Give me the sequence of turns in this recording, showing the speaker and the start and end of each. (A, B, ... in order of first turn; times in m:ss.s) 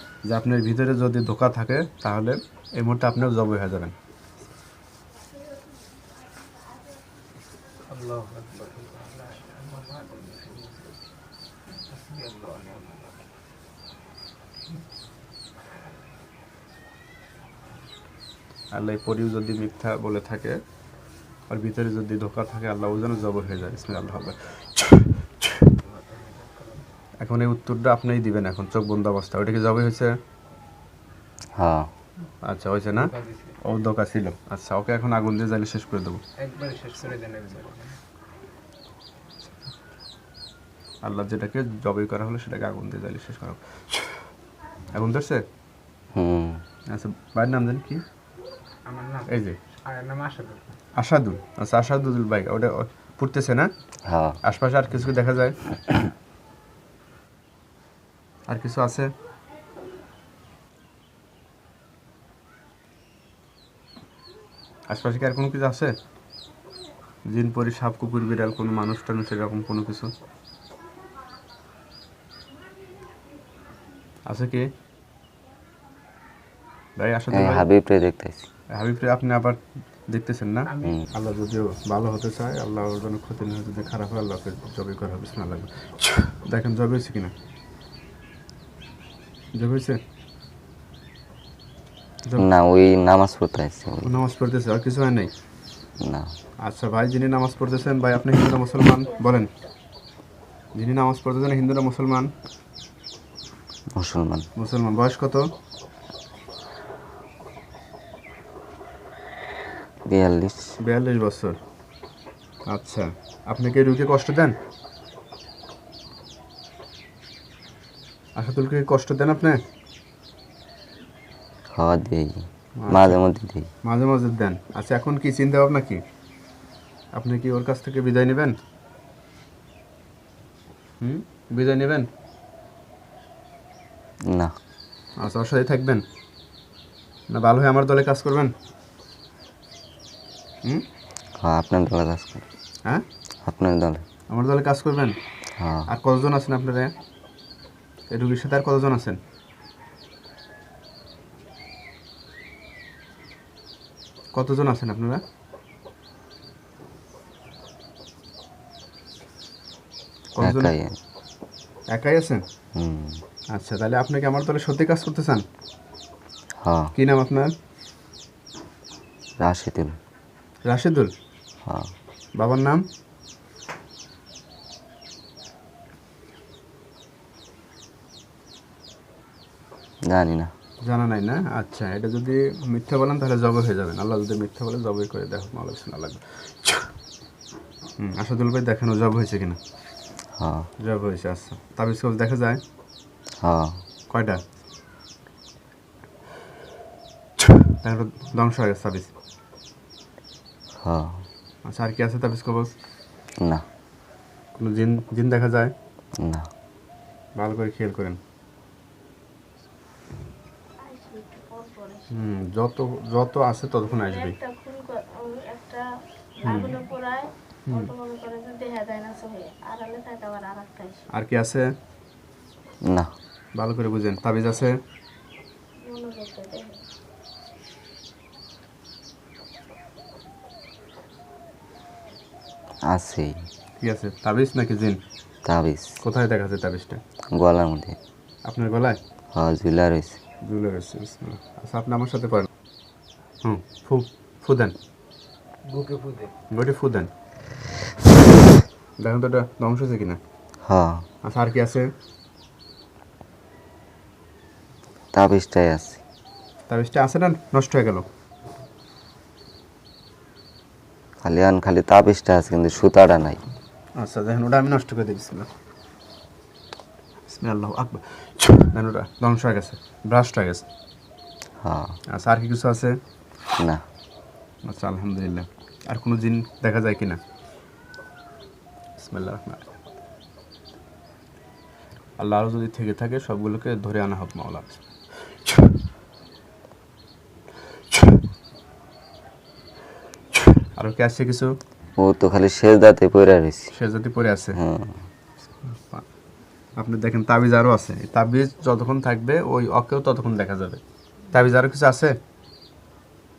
0:00.3-0:03.9 A
0:07.9-0:11.0 B
0:11.9-0:13.2 B
0:18.7-0:20.6 A
0:21.5-0:25.8 A
0:25.8-0:26.9 B
0:27.2-0:30.1 A
0:31.6-0:31.9 C
0:32.4-0:36.2 A
0:33.0-0:33.6 B
0:36.4-0:38.0 B
0:41.0-0:44.2 A
0:44.9-0:45.4 A
0:46.2-0:46.6 C
0:46.9-0:48.0 A
0:48.9-0:50.6 B
0:49.3-0:49.6 A
0:51.0-0:53.7 A
0:54.1-0:54.4 C
0:54.4-0:55.6 A
0:58.5-0:59.1 A
1:04.9-1:05.9 A
1:07.3-1:10.1 A
1:14.3-1:14.7 A
1:17.0-1:17.7 A
1:17.3-1:18.4 C
1:18.7-1:19.6 A
1:20.1-1:27.3 A
1:20.7-1:21.0 B
1:29.6-1:30.0 A
1:32.4-1:34.1 C
1:34.0-1:35.3 A
1:36.0-1:36.3 C
1:36.6-1:39.5 A
1:40.8-1:42.3 A
1:43.9-1:44.5 C
1:44.6-1:45.5 A
1:50.1-1:50.8 C
1:50.8-1:51.6 A
1:52.7-1:54.6 A
1:58.4-1:59.6 A
2:01.7-2:03.7 C
2:02.8-2:03.2 A
2:03.8-2:06.0 A
2:07.2-2:08.6 A
2:11.0-2:12.1 A
2:14.3-2:14.6 C
2:15.2-2:16.0 A
2:17.3-2:18.5 A
2:21.4-2:22.4 C
2:23.4-2:24.0 C
2:24.3-2:25.2 A
2:25.6-2:25.9 C
2:25.9-2:26.9 A
2:28.1-2:29.2 A
2:34.4-2:35.2 A
2:40.4-2:40.7 A
2:40.4-2:41.0 C
2:41.9-2:42.4 A
2:42.8-2:43.2 C
2:43.5-2:45.4 A
2:46.6-2:46.9 C
2:47.0-2:47.5 A
2:49.4-2:50.0 C
2:50.7-2:51.1 A
2:51.6-2:51.9 C
2:52.4-2:52.8 A
3:00.1-3:00.5 C
3:00.8-3:06.9 A
3:08.0-3:09.6 A
3:10.4-3:10.7 C
3:10.8-3:12.6 A
3:13.4-3:13.8 C
3:14.1-3:14.4 A
3:17.7-3:19.1 A
3:20.8-3:21.2 C
3:21.6-3:22.7 A
3:24.6-3:25.7 A
3:26.2-3:26.5 C
3:27.4-3:28.2 A
3:30.8-3:32.1 D
3:32.1-3:34.4 A
3:33.8-3:35.9 D
3:36.4-3:41.1 D
3:36.5-3:36.8 A
3:41.1-3:41.7 A
3:43.6-3:44.8 A
3:45.8-3:46.8 D
3:52.9-3:53.5 C
3:53.8-3:55.0 A
3:55.4-3:56.0 C
3:56.0-3:57.0 A
3:57.3-3:58.0 C
3:58.4-3:59.0 A
3:59.3-4:00.2 C
4:00.4-4:02.5 A
4:03.4-4:04.8 A
4:05.6-4:06.3 B
4:06.5-4:07.1 A
4:09.0-4:10.2 A
4:10.7-4:11.0 C
4:11.2-4:11.9 A
4:15.1-4:16.0 C
4:16.7-4:18.1 A
4:21.2-4:23.4 C
4:24.0-4:25.5 A
4:27.3-4:30.6 A
4:31.6-4:32.0 C
4:32.1-4:33.0 A
4:34.6-4:37.2 A
4:39.0-4:39.7 A
4:42.2-4:44.8 A
4:50.8-4:51.6 A
4:52.0-4:53.7 C
4:53.7-4:54.6 A
4:54.6-4:55.0 C
4:55.7-4:56.0 A
4:56.8-5:00.8 A
5:01.3-5:02.2 A